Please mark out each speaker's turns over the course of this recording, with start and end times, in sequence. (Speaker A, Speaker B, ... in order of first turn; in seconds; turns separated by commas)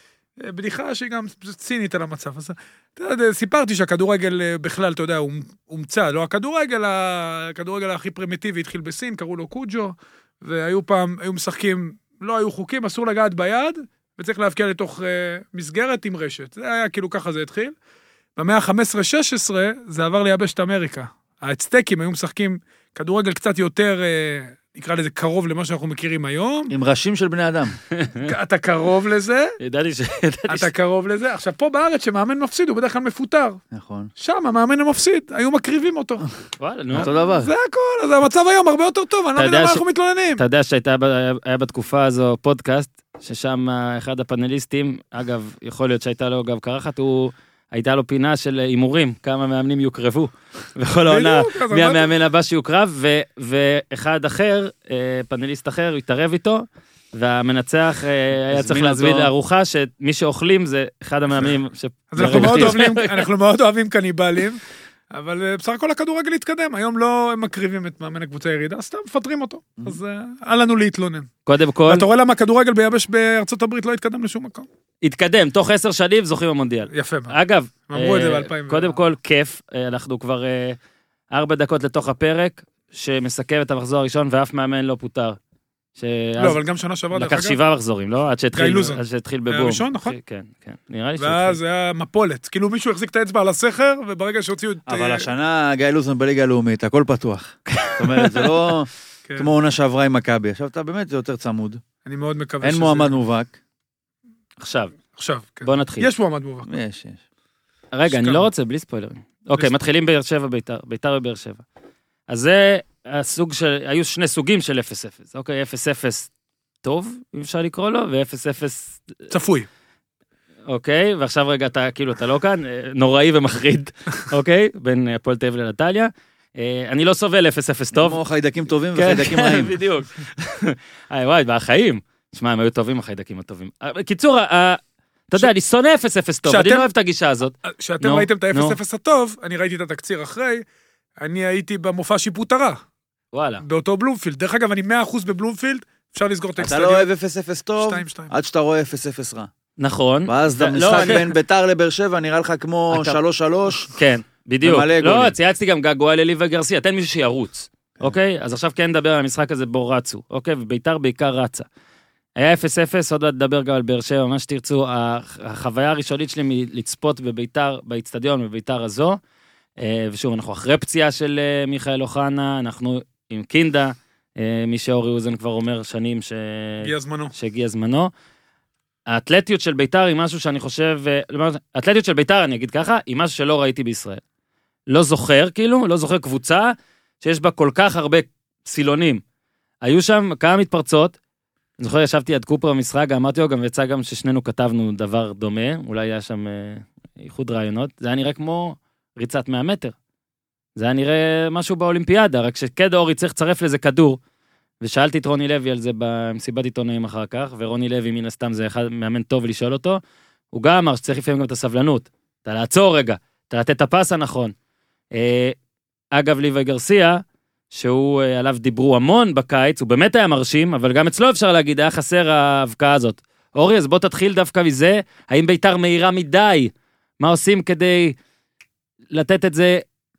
Speaker A: 0.4-17.7, Speaker A: 18.4-26.7, Speaker B: 26.7-27.8, Speaker C: 27.9-28.3, Speaker A: 28.1-29.6, Speaker C: 29.6-30.7, Speaker A: 30.5-33.6, Speaker B: 33.7-34.1, Speaker A: 34.2-36.2, Speaker C: 36.6-37.1, Speaker B: 36.9-37.5, Speaker A: 36.9-40.4, Speaker C: 39.4-39.8, Speaker C: 40.4-63.2, Speaker A: 51.0-52.1, Speaker B: 58.5-59.3, Speaker A: 62.1-71.3, Speaker B: 62.2-62.8, Speaker C: 71.5-72.0, Speaker A: 71.9-74.7, Speaker C: 75.0-80.8, Speaker A: 76.9-77.3, Speaker A: 77.9-79.0, Speaker C: 81.3-85.4, Speaker C: 86.0-86.6, Speaker A: 86.4-87.6, Speaker C: 87.1-91.6, Speaker A: 88.5-90.2, Speaker A: 91.2-95.3, Speaker B: 94.9-101.8, Speaker C: 97.7-98.5, Speaker A: 102.0-103.2, Speaker B: 102.6-103.6, Speaker C: 104.6-104.9, Speaker A: 105.2-106.7, Speaker C: 105.6-106.1, Speaker B: 106.6-107.2, Speaker C: 107.9-111.6, Speaker A: 108.1-108.5, Speaker C: 112.3-116.3, Speaker C: 116.8-119.3, Speaker A: 119.3-119.7, Speaker C: 120.7-128.2, Speaker B: 127.9-129.8, Speaker C: 128.9-138.8, Speaker A: 136.4-136.9, Speaker A: 137.6-140.6, Speaker A: 141.2-142.8, Speaker C: 143.3-143.6, Speaker A: 143.6-147.1, Speaker B: 146.6-149.5, Speaker A: 147.8-148.3, Speaker C: 149.8-151.3, Speaker B: 150.3-153.9, Speaker C: 152.9-153.2, Speaker C: 153.9-161.7, Speaker B: 154.6-155.3, Speaker C: 162.3-169.2, Speaker C: 169.8-178.1, Speaker A: 176.8-177.3, Speaker C: 179.1-184.2, Speaker C: 184.9-189.2, Speaker C: 189.8-191.2, Speaker C: 191.8-199.9, Speaker C: 200.8-204.2, Speaker C: 204.8-210.0, Speaker C: 210.5-214.5, Speaker C: 215.1-215.6, Speaker C: 216.1-228.2, Speaker C: 229.1-229.8